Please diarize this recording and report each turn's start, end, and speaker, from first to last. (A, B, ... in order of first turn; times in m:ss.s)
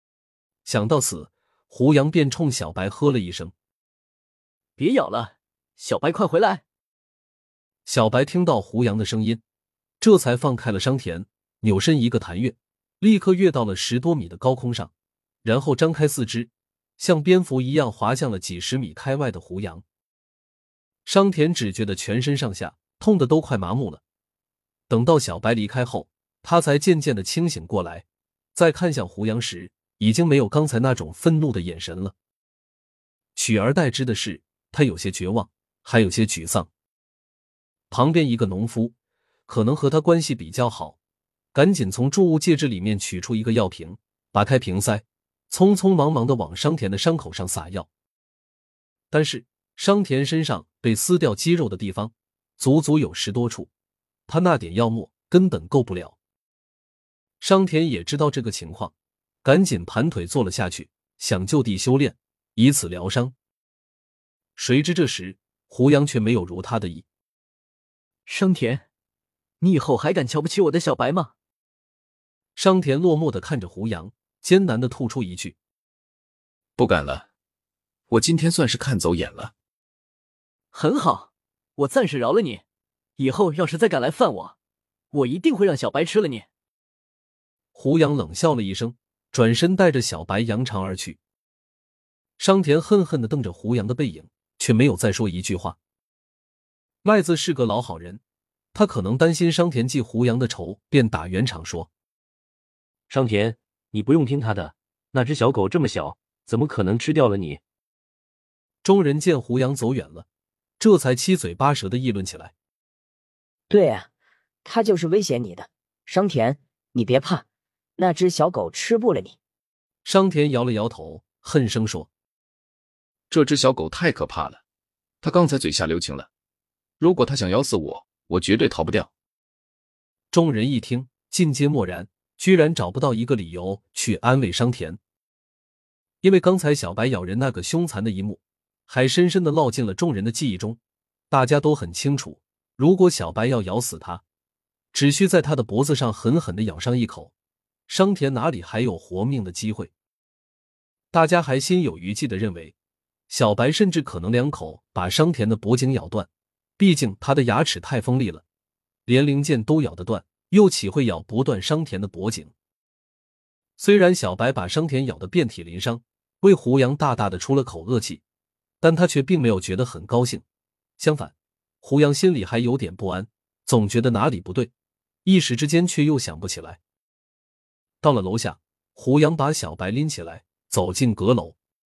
0:00.6-0:03.5 A
0:04.8-0:06.6 B
0:07.8-0:09.4 A
0:10.0-0:14.9 A
0:15.4-0:19.8 A
0:21.0-0:24.0 A
0:24.9-0:32.1 A
0:33.4-0:36.7 A
0:37.9-0:38.9 A
0:39.5-0:41.0 A
0:41.5-0:47.9 A
0:49.1-0:53.7 A
0:54.3-0:56.2 A
0:57.4-0:58.9 A
0:59.4-1:03.3 A
1:04.6-1:07.0 A
1:08.3-1:08.8 B
1:09.6-1:11.3 B
1:12.6-1:15.6 A
1:16.8-1:17.3 C
1:18.1-1:19.5 C
1:20.7-1:22.6 B
1:23.2-1:24.5 B
1:25.1-1:26.4 B
1:27.7-1:31.2 A
1:32.4-1:35.8 A
1:37.0-1:38.2 A
1:38.7-1:41.9 A
1:43.1-1:47.6 D
1:48.8-1:50.2 A
1:50.8-1:52.5 A
1:53.7-1:54.1 E
1:54.6-1:57.4 E
1:58.0-1:59.4 E
2:00.0-2:02.1 A
2:03.3-2:04.6 C
2:05.2-2:06.3 C
2:07.0-2:09.1 C
2:10.3-2:15.0 A
2:16.2-2:20.8 A
2:21.3-2:24.2 A
2:24.9-2:27.3 A
2:27.9-2:29.9 A
2:31.1-2:32.7 A
2:33.3-2:36.3 A
2:36.8-2:38.4 A
2:39.0-2:42.5 A
2:43.8-2:48.2 A
2:48.8-2:50.4 A
2:51.0-2:54.7 A
2:55.2-2:56.8 A
2:58.0-3:01.6 A